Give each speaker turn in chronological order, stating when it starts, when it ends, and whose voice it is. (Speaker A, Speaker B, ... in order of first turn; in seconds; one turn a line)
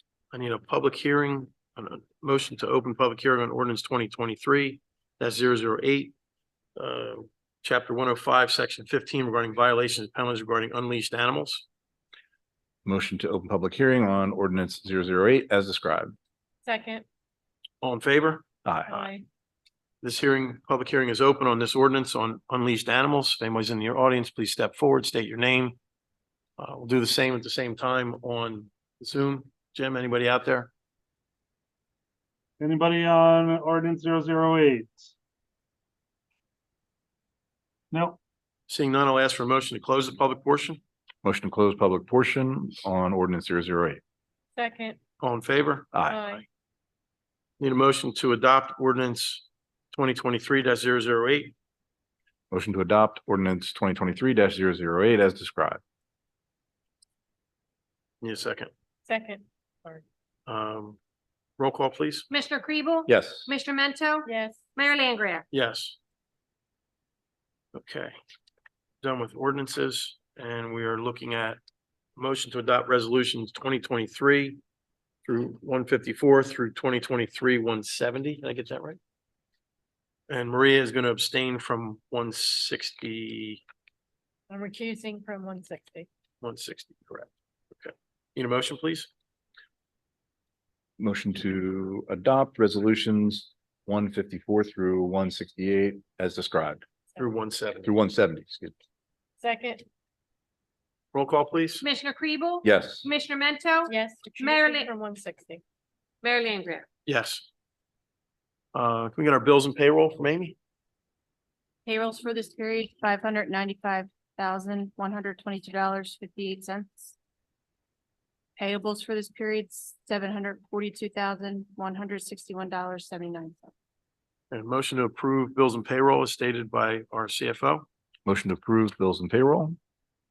Speaker A: 0.3-6.1
Speaker A: 6.8-11.6
Speaker B: 12.8-16.1
Speaker C: 16.6-17.0
Speaker A: 17.8-18.4
Speaker B: 18.6-19.1
Speaker C: 18.9-19.2
Speaker A: 20.0-25.8
Speaker A: 26.6-30.7
Speaker D: 32.6-35.1
Speaker D: 37.9-38.2
Speaker A: 38.7-40.8
Speaker B: 41.2-44.0
Speaker C: 44.5-45.0
Speaker A: 45.2-45.9
Speaker B: 45.9-46.3
Speaker C: 46.1-46.4
Speaker A: 47.6-51.5
Speaker B: 52.5-55.8
Speaker A: 58.2-58.7
Speaker C: 59.1-60.0
Speaker A: 60.5-61.0
Speaker A: 61.6-62.3
Speaker E: 62.3-65.4
Speaker B: 63.1-63.5
Speaker C: 64.2-64.6
Speaker A: 65.5-66.0
Speaker A: 67.7-68.1
Speaker A: 69.0-71.6
Speaker A: 72.2-74.6
Speaker A: 75.2-79.0
Speaker A: 80.3-83.6
Speaker C: 84.5-86.1
Speaker A: 86.4-89.1
Speaker B: 91.0-96.8
Speaker A: 97.2-97.9
Speaker B: 97.8-98.7
Speaker C: 99.4-99.8
Speaker A: 101.1-101.8
Speaker E: 101.8-104.9
Speaker B: 102.6-103.1
Speaker C: 103.9-105.6
Speaker E: 106.2-106.8
Speaker A: 107.1-107.5
Speaker A: 108.7-110.5
Speaker F: 111.9-117.1
Speaker F: 118.6-123.7
Speaker A: 124.5-127.8
Speaker B: 128.2-129.8